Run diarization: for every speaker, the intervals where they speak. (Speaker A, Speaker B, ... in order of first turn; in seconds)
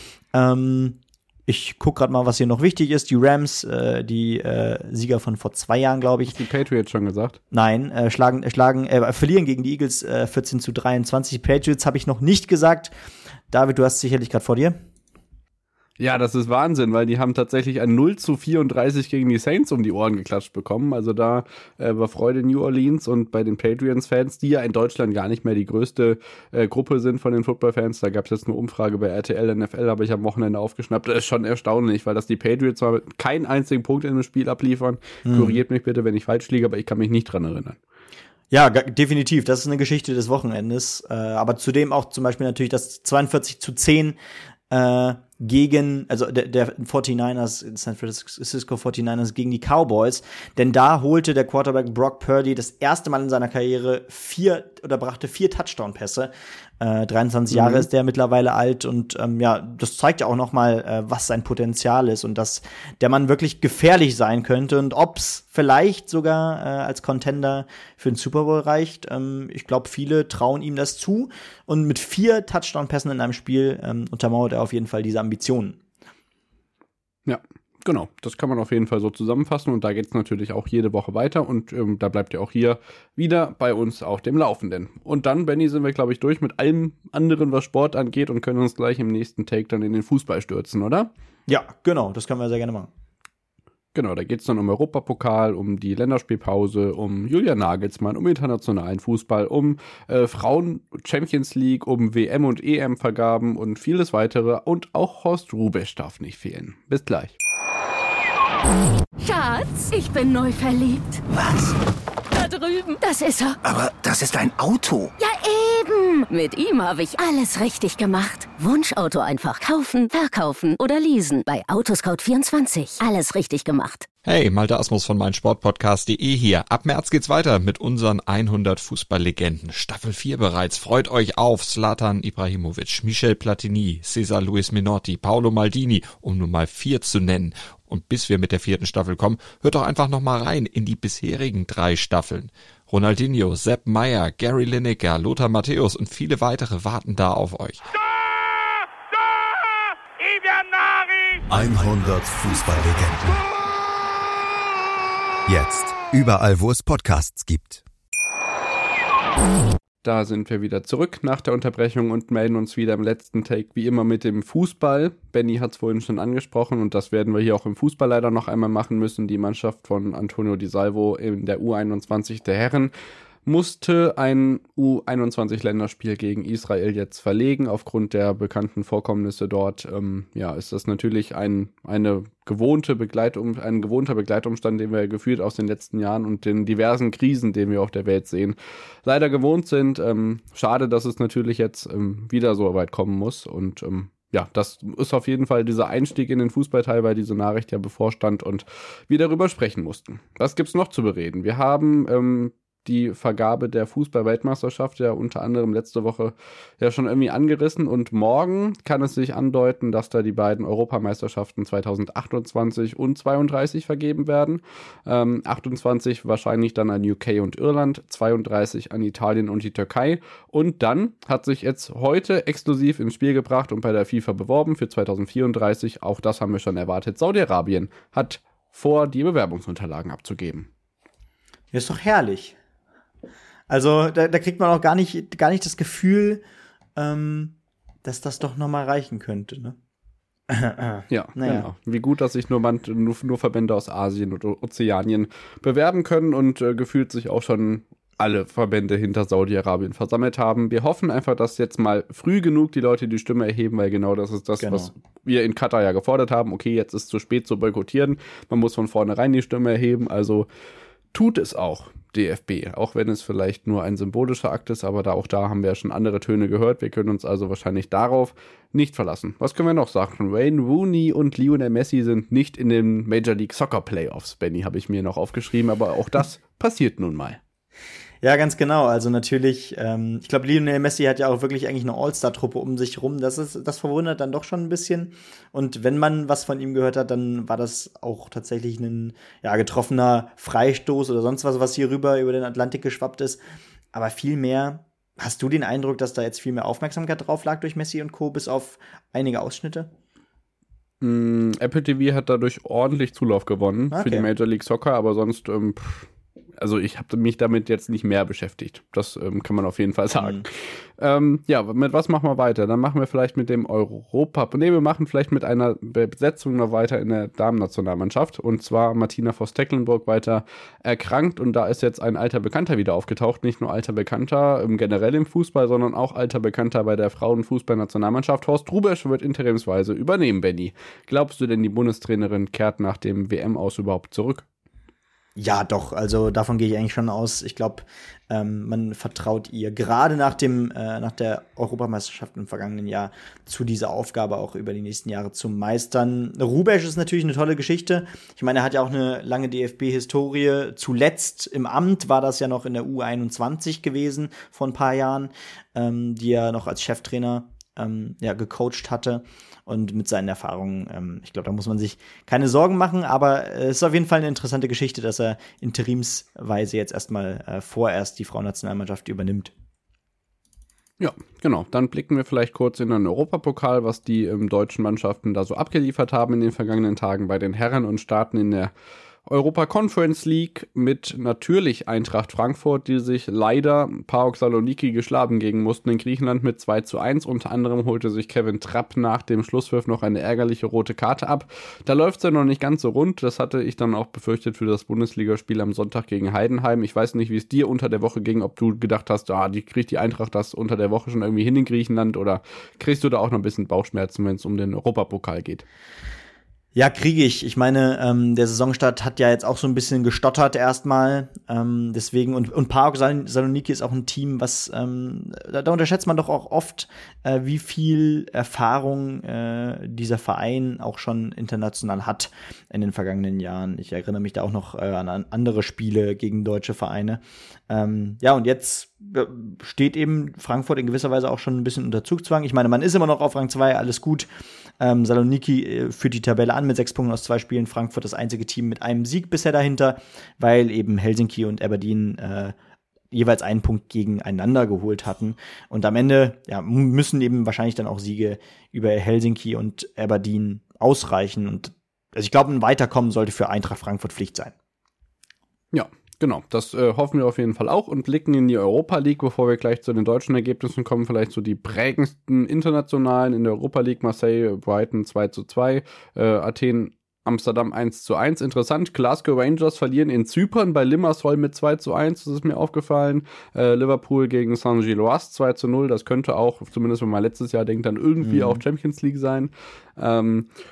Speaker A: 0.3-6.3, 7.5-12.9, 13.5-14.8, 35.2-35.6, 38.5-44.2, 44.7-75.8, 91.5-92.9, 231.7-232.5, 233.7-236.4, 236.9-239.8, 240.5-241.7, 254.6-254.9, 278.2-293.4, 293.9-299.9, 303.9-304.3, 310.2-310.4, 335.4-369.5, 406.7-434.3, 434.8-442.5, 443.1-454.5, 478.2-478.6
Speaker B: 6.3-7.4, 16.0-37.8, 57.5-57.9, 77.2-91.1, 93.9-107.3, 160.0-172.9, 173.4-230.7, 241.1-260.5, 261.1-277.4, 301.0-334.4, 371.0-378.7, 379.2-405.6, 455.7-480.5
Speaker C: 109.2-111.2, 112.3-113.6, 115.2-124.1
Speaker D: 111.3-111.8, 113.6-115.1
Speaker E: 124.2-147.9
Speaker F: 151.5-153.4, 155.5-157.8